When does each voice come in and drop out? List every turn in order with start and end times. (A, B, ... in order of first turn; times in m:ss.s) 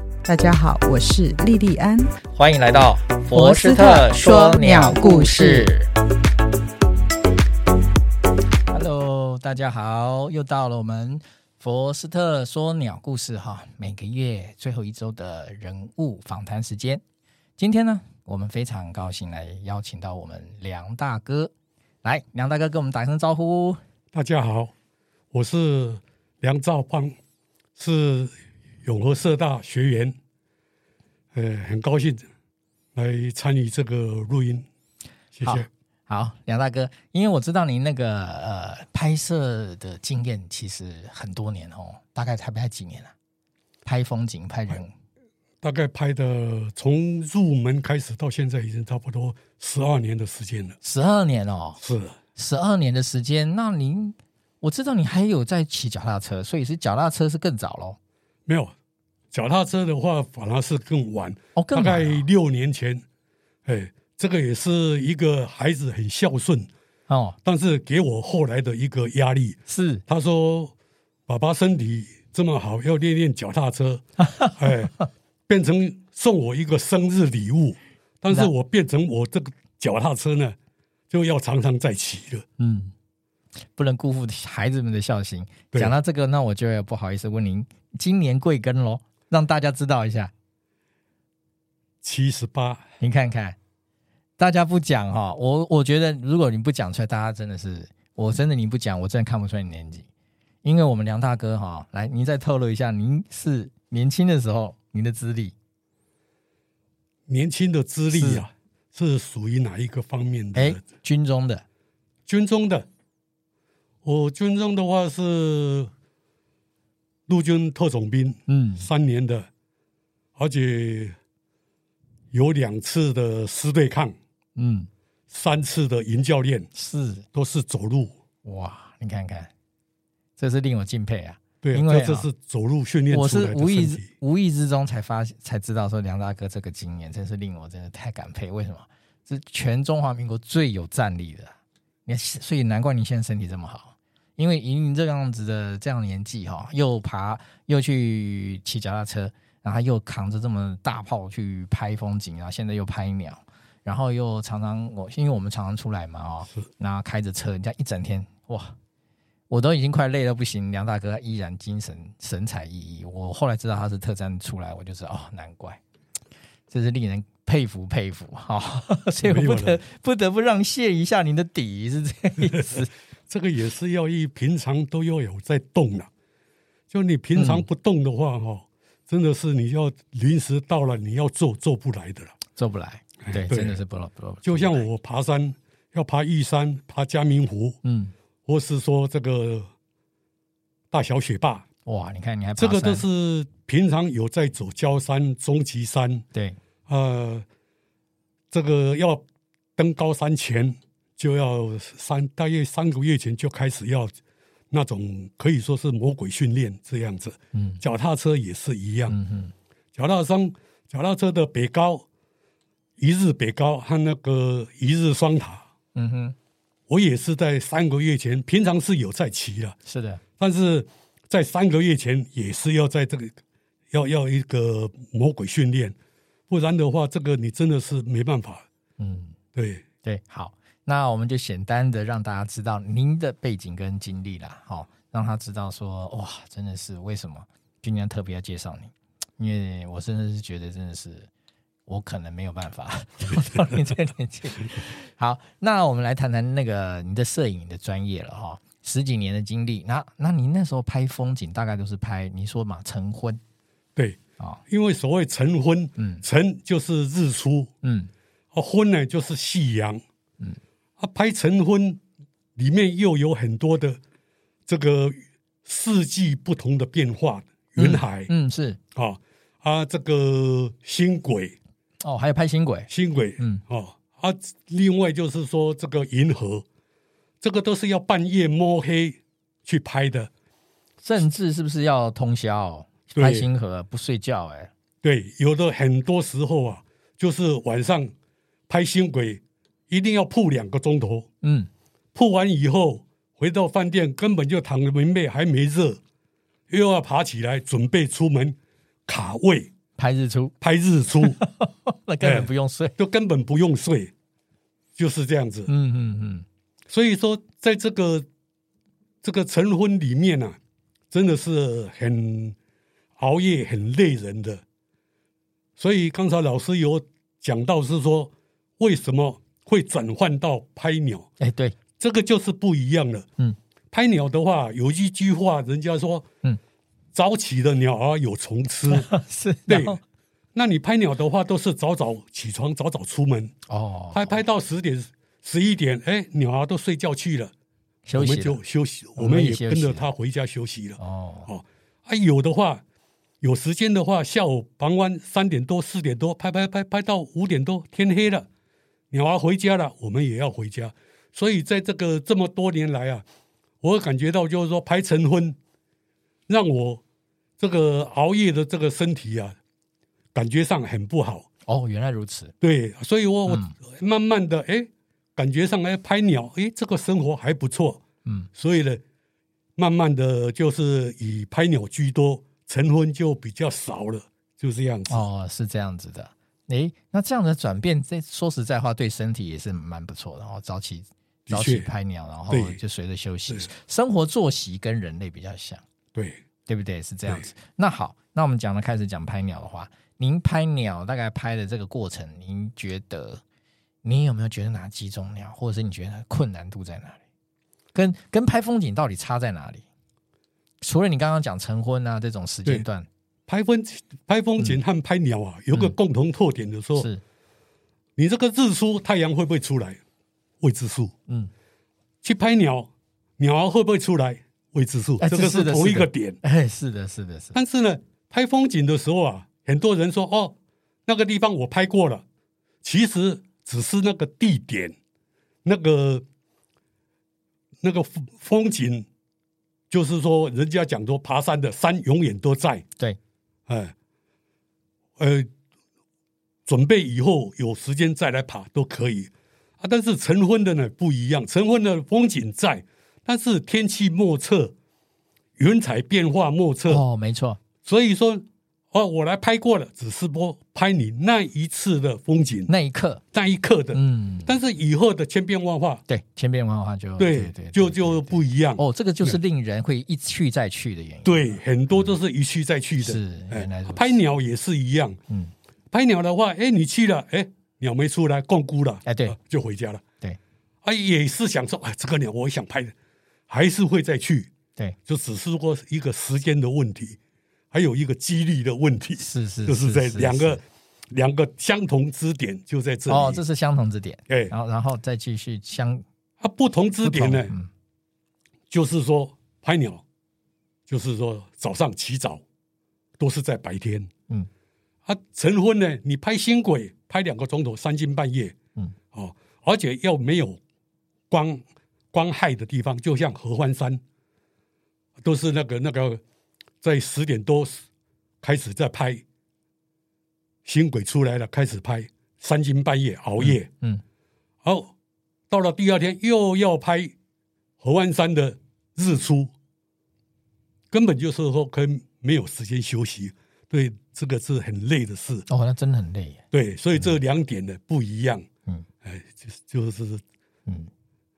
0:00.3-0:02.1 A
0:02.3-0:05.9 B
0:03.3-0:05.7 A
0:08.7-0:17.0 B
0:17.6-0:21.5 B
0:22.0-0:23.8 B
0:24.1-0:24.7 C
0:25.3-0:27.2 C
0:27.8-0:30.2 C
0:31.3-0:32.3 C
0:33.0-0:34.7 C
0:35.3-0:35.7 C
0:35.4-0:43.1 B
0:43.8-0:44.9 B
0:45.6-0:50.8 C
0:50.8-0:51.8 B
0:51.8-0:52.2 C
0:52.4-0:58.0 B
0:58.5-0:58.7 C
0:59.3-1:03.0 C
1:01.6-1:02.2 B
1:03.6-1:06.7 C
1:07.1-1:07.4 B
1:07.4-1:10.7 C
1:09.7-1:10.0 B
1:11.3-1:14.0 C
1:14.3-1:14.6 B
1:14.6-1:14.9 C
1:15.5-1:20.6 C
1:21.1-1:22.4 C
1:22.6-1:22.9 B
1:23.8-1:30.3 B
1:32.0-1:32.9 C
1:33.0-1:33.6 B
1:34.4-1:40.1 B
1:40.6-1:45.6 B
1:47.3-1:50.8 C
1:48.1-1:48.4 B
1:50.6-1:51.6 B
1:52.3-1:52.9 C
1:54.0-1:55.9 C
1:57.3-1:59.5 C
1:58.5-1:58.9 B
2:00.4-2:01.2 C
2:02.3-2:04.2 C
2:04.6-2:04.9 B
2:05.3-2:06.7 C
2:06.8-2:07.3 B
2:07.3-2:08.2 C
2:08.4-2:09.5 B
2:10.4-2:12.3 B
2:11.6-2:14.1 C
2:13.1-2:21.5 B
2:22.1-2:38.8 B
2:39.5-2:45.8 B
2:46.7-2:52.9 B
2:49.2-2:49.8 C
2:52.4-2:56.1 C
2:56.9-3:02.4 C
2:57.4-2:57.7 B
3:02.6-3:04.8 B
3:03.2-3:03.8 C
3:04.4-3:07.8 C
3:07.8-3:08.1 B
3:08.5-3:09.7 C
3:10.9-3:11.7 C
3:11.9-3:13.0 B
3:12.6-3:16.2 C
3:16.9-3:17.5 C
3:18.5-3:19.2 C
3:19.8-3:24.2 C
3:24.7-3:29.2 C
3:27.5-3:27.8 B
3:29.1-3:29.5 B
3:30.0-3:32.0 C
3:33.0-3:35.7 C
3:36.0-3:36.4 B
3:36.9-3:39.8 C
3:39.9-3:40.2 B
3:40.4-3:43.4 C
3:43.9-3:46.0 C
3:46.5-3:48.6 C
3:49.0-3:49.4 B
3:49.6-3:49.8 C
3:50.0-4:01.3 B
4:01.9-4:13.4 B
4:14.0-4:17.7 C
4:16.0-4:16.2 B
4:17.8-4:18.1 B
4:18.5-4:20.0 C
4:21.0-4:22.0 C
4:22.6-4:24.0 C
4:24.7-4:28.3 C
4:27.8-4:28.8 B
4:29.0-4:31.6 C
4:32.0-4:33.6 B
4:32.9-4:36.6 C
4:37.4-4:40.3 C
4:41.0-4:44.7 B
4:43.2-4:43.5 C
4:45.0-4:48.1 C
4:48.7-4:51.3 C
4:51.4-4:51.7 B
4:52.1-4:56.0 C
4:56.7-4:59.7 C
5:00.0-5:00.5 B
5:00.6-5:01.4 C
5:01.2-5:03.0 B
5:02.2-5:04.1 C
5:05.0-5:05.7 C
5:05.7-5:06.5 B
5:06.9-5:08.3 C
5:09.2-5:10.6 C
5:11.1-5:12.6 C
5:13.2-5:14.6 C
5:15.8-5:21.3 C
5:21.4-5:21.8 B
5:22.0-5:23.3 C
5:23.9-5:26.3 C
5:27.1-5:29.1 C
5:28.9-5:30.0 B
5:29.7-5:30.0 C
5:30.5-5:33.5 C
5:33.7-5:34.3 B
5:34.1-5:37.5 C
5:38.1-5:38.6 B
5:38.2-5:42.8 C
5:39.2-5:40.1 B
5:41.0-5:41.5 B
5:43.4-5:48.5 C
5:49.1-5:53.2 C
5:53.8-5:55.6 C
5:56.5-5:57.0 C
5:57.6-5:59.6 C
6:00.3-6:01.5 C
6:01.7-6:02.5 B
6:02.6-6:08.0 C
6:03.5-6:03.8 B
6:08.6-6:09.0 C
6:09.8-6:15.3 C
6:15.1-6:25.8 B
6:21.5-6:21.9 C
6:22.5-6:22.8 C
6:26.2-6:26.4 C
6:26.7-6:33.4 B
6:34.0-6:37.2 B
6:37.9-6:39.8 B
6:40.8-6:43.1 B
6:43.5-6:47.1 C
6:47.0-6:47.2 B
6:48.2-6:50.0 C
6:50.6-6:51.1 C
6:52.2-6:56.4 C
6:55.2-6:57.6 B
6:57.5-7:02.2 C
7:02.8-7:05.0 C
7:05.6-7:06.2 C
7:07.8-7:09.1 C
7:09.9-7:12.9 C
7:13.7-7:13.9 C
7:15.2-7:15.5 C
7:16.7-7:24.7 C
7:25.6-7:27.0 C
7:26.9-7:27.6 B
7:27.8-7:32.7 C
7:32.7-7:33.2 B
7:33.3-7:36.0 C
7:33.9-7:34.5 B
7:36.1-7:42.1 B
7:37.2-7:39.4 C
7:41.2-7:45.2 C
7:43.0-7:44.2 B
7:45.9-7:50.0 C
7:49.1-7:49.4 B
7:50.8-7:52.9 C
7:53.5-7:54.5 C
7:55.1-7:57.2 C
7:57.7-8:03.4 C
7:59.2-8:00.6 B
8:03.1-8:06.0 B
8:06.4-8:07.5 C
8:07.0-8:07.7 B
8:08.7-8:10.0 C
8:10.9-8:12.4 C
8:13.2-8:14.1 C
8:15.0-8:18.6 C
8:19.1-8:20.6 C
8:21.3-8:24.0 C
8:25.2-8:26.2 C
8:26.8-8:27.8 C
8:28.4-8:29.2 C
8:30.6-8:33.7 C
8:33.4-8:34.0 B
8:34.6-8:34.9 C
8:35.5-8:37.1 C
8:37.8-8:39.5 C
8:40.9-8:45.5 C
8:45.5-8:46.4 B
8:46.5-8:48.5 C
8:49.0-8:50.2 C